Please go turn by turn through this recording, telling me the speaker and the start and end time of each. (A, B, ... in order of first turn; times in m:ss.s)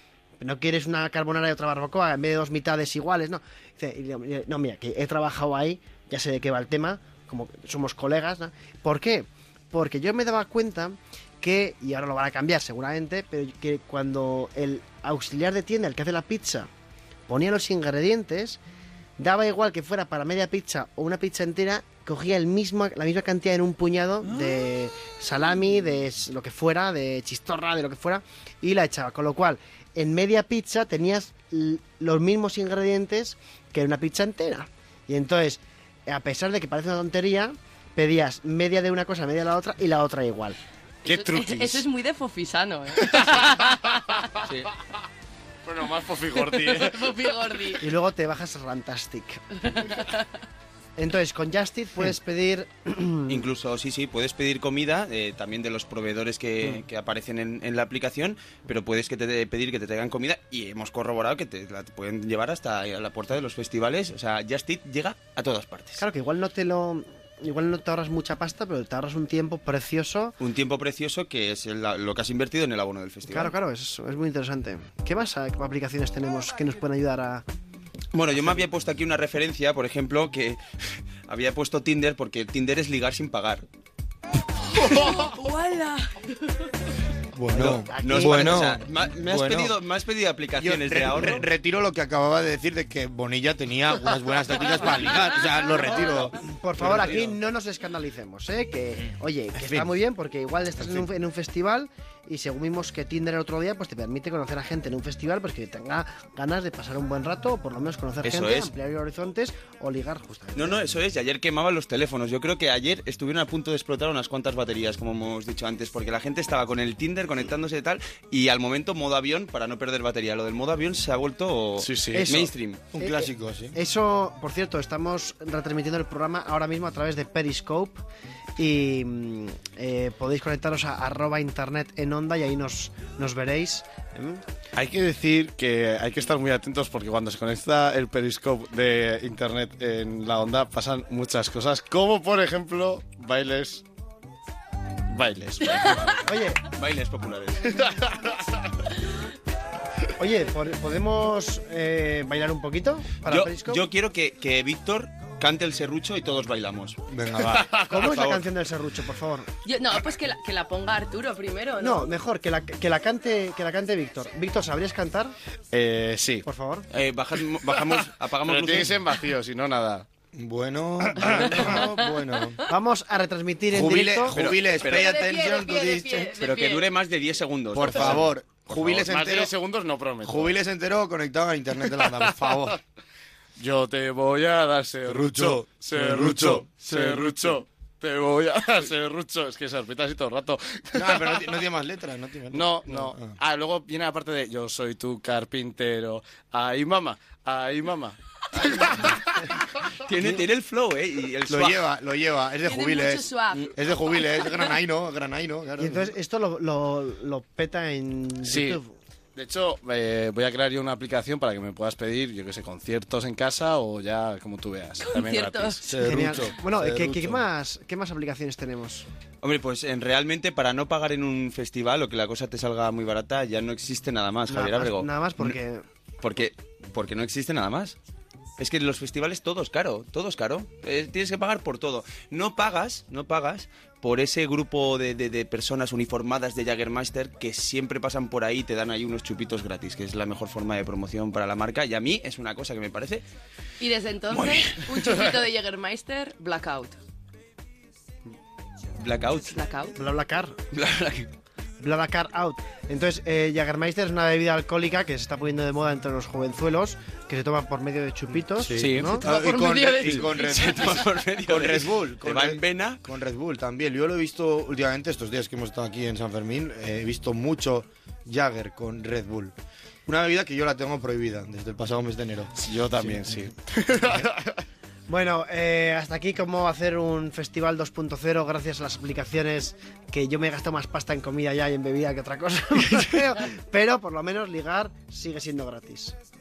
0:00.4-0:16.7 A
0:17.3-0:18.6 A
0:19.2-0:40.6 A
0:41.0-0:44.3 B
0:41.0-0:41.8 C
0:43.0-0:44.1 C
0:44.4-0:44.7 D
0:45.6-0:47.1 C
0:46.3-0:47.8 B
0:47.8-0:49.6 A
0:49.8-0:50.2 B
0:51.0-0:53.4 A
0:53.3-1:06.0 D
1:06.0-1:10.4 A
1:10.4-1:13.5 D
1:13.3-1:17.4 A
1:18.1-1:20.6 D
1:21.2-1:23.6 D
1:24.6-1:26.7 B
1:27.3-1:29.7 E
1:27.5-1:28.7 A
1:28.0-1:31.5 D
1:30.6-1:37.0 E
1:36.4-1:50.8 A
1:36.8-1:37.3 D
1:39.6-1:39.9 E
1:40.8-1:41.0 E
1:48.2-1:48.7 D
1:50.5-2:02.8 D
2:01.8-2:02.5 C
2:02.1-2:08.0 A
2:02.9-2:03.7 E
2:08.6-2:14.4 A
2:14.7-2:23.8 C
2:25.1-2:26.2 C
2:26.1-2:26.6 A
2:26.7-2:27.8 D
2:27.8-2:28.4 C
2:30.2-2:33.8 A
2:33.2-2:37.0 D
2:37.1-2:37.7 E
2:37.8-2:39.5 A
2:37.9-2:38.5 D
2:39.6-2:42.1 B
2:41.8-2:45.3 A
2:45.7-2:46.4 C
2:46.4-2:46.9 A
2:46.9-2:49.0 D
2:47.6-2:50.0 C
2:50.3-2:52.6 E
2:51.2-2:51.8 A
2:52.6-2:54.4 A
2:53.7-2:56.3 E
2:54.3-2:55.2 D
2:54.8-2:56.9 B
2:56.4-2:58.3 D
2:57.7-2:59.5 E
2:57.9-3:00.5 C
3:00.2-3:02.8 E
3:01.9-3:02.7 C
3:03.6-3:11.6 C
3:05.0-3:07.6 E
3:10.9-3:13.3 E
3:12.5-3:19.2 C
3:19.9-3:21.9 D
3:21.5-3:26.1 E
3:22.6-3:23.8 B
3:24.4-3:24.6 B
3:25.8-3:29.0 A
3:28.4-3:28.8 C
3:29.4-3:35.8 C
3:35.0-3:35.9 B
3:35.8-3:37.4 E
3:36.0-3:39.0 A
3:39.4-3:45.5 D
3:44.5-3:45.8 A
3:46.2-3:48.0 D
3:48.6-4:03.2 D
4:03.8-4:07.0 B
4:04.3-4:05.0 D
4:09.0-4:09.6 D
4:09.5-4:10.0 B
4:10.0-4:10.6 A
4:10.7-4:11.3 D
4:11.8-4:19.2 A
4:18.5-4:29.5 E
4:18.8-4:19.1 C
4:19.0-4:21.2 B
4:20.0-4:23.0 D
4:30.0-4:33.3 E
4:32.6-4:34.6 C
4:35.1-4:46.2 A